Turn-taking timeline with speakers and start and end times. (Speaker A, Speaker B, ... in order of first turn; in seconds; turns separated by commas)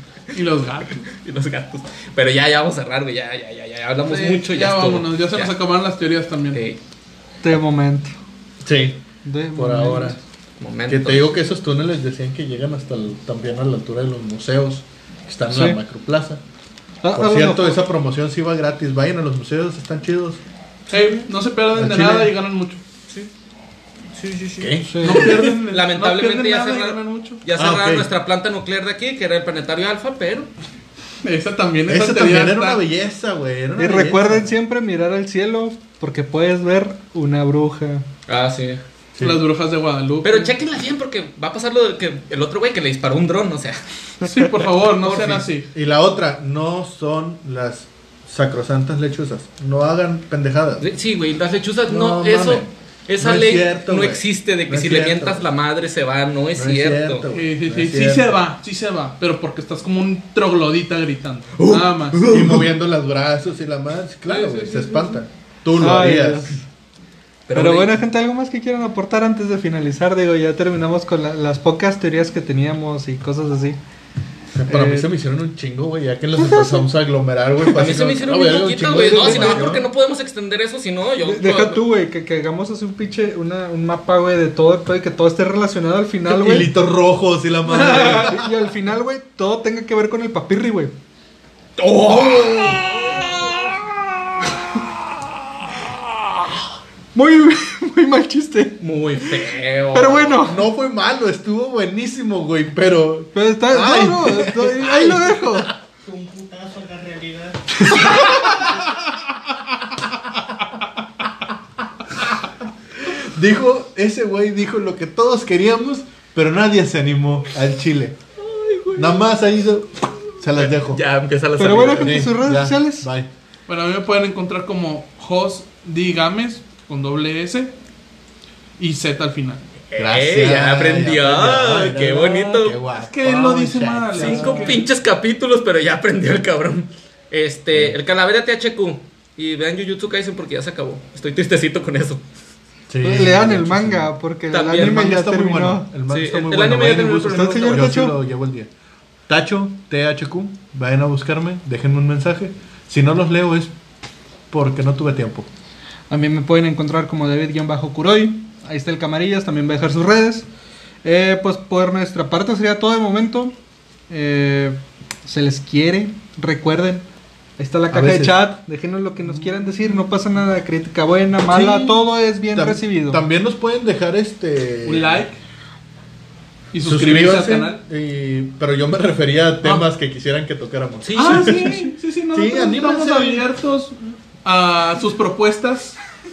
Speaker A: 0.3-1.0, Speaker B: 1.0-5.5, Speaker A: 4.1-6.6, Speaker B: 6.5-6.8, Speaker C: 7.4-8.1, Speaker D: 8.6-9.0, Speaker C: 9.2-10.2, Speaker D: 9.6-10.2, Speaker B: 10.6-11.3, Speaker D: 10.9-16.4, Speaker C: 15.5-15.8, Speaker C: 17.0-17.8, Speaker D: 17.1-20.4, Speaker A: 20.9-22.8, Speaker B: 20.9-21.2, Speaker D: 21.7-22.3, Speaker B: 24.1-30.5, Speaker D: 24.6-25.2, Speaker C: 24.8-25.5, Speaker A: 25.0-27.4, Speaker D: 27.5-28.1, Speaker A: 31.2-32.8, Speaker D: 31.9-34.5, Speaker C: 33.8-38.1, Speaker B: 38.3-38.8, Speaker D: 39.1-39.4, Speaker A: 39.2-40.5, Speaker B: 40.2-45.5, Speaker A: 44.2-45.7, Speaker D: 45.7-50.8, Speaker B: 50.8-57.2, Speaker D: 51.9-52.7, Speaker D: 53.2-55.5, Speaker D: 56.5-58.4, Speaker A: 57.3-62.4, Speaker B: 61.6-62.7, Speaker D: 62.3-66.6, Speaker A: 64.3-65.2, Speaker C: 65.8-66.6, Speaker B: 67.5-67.9, Speaker C: 67.5-73.8, Speaker D: 74.5-79.8, Speaker C: 74.7-75.1, Speaker C: 76.3-76.9, Speaker B: 77.7-81.8, Speaker C: 78.8-79.7, Speaker C: 81.2-86.7, Speaker D: 86.3-88.5, Speaker C: 87.7-90.9, Speaker B: 91.8-93.9, Speaker D: 92.2-92.9, Speaker C: 97.1-100.7, Speaker B: 98.8-100.5, Speaker D: 100.4-105.6, Speaker C: 103.3-105.7, Speaker E: 106.0-108.9, Speaker D: 108.0-108.5, Speaker D: 112.1-112.5, Speaker D: 113.0-118.2, Speaker B: 118.4-119.2, Speaker D: 118.9-121.0, Speaker B: 120.5-122.2, Speaker C: 121.6-123.1, Speaker D: 121.9-123.3, Speaker A: 123.7-127.7, Speaker A: 128.8-129.7, Speaker B: 129.9-132.8, Speaker D: 130.0-134.8, Speaker A: 132.9-134.8, Speaker B: 134.1-142.2, Speaker D: 142.9-144.1, Speaker C: 143.0-145.9, Speaker B: 144.5-145.1, Speaker D: 144.7-148.7, Speaker B: 146.1-148.0, Speaker C: 147.3-148.1, Speaker D: 149.3-153.7, Speaker D: 154.5-155.5, Speaker C: 156.1-160.5, Speaker C: 161.0-163.5, Speaker C: 164.1-167.1, Speaker C: 167.6-173.2, Speaker D: 167.9-168.4, Speaker D: 171.5-175.2, Speaker A: 174.8-175.4, Speaker A: 176.7-177.8, Speaker D: 176.8-181.8, Speaker B: 181.0-181.8, Speaker A: 181.1-186.0, Speaker D: 182.3-183.5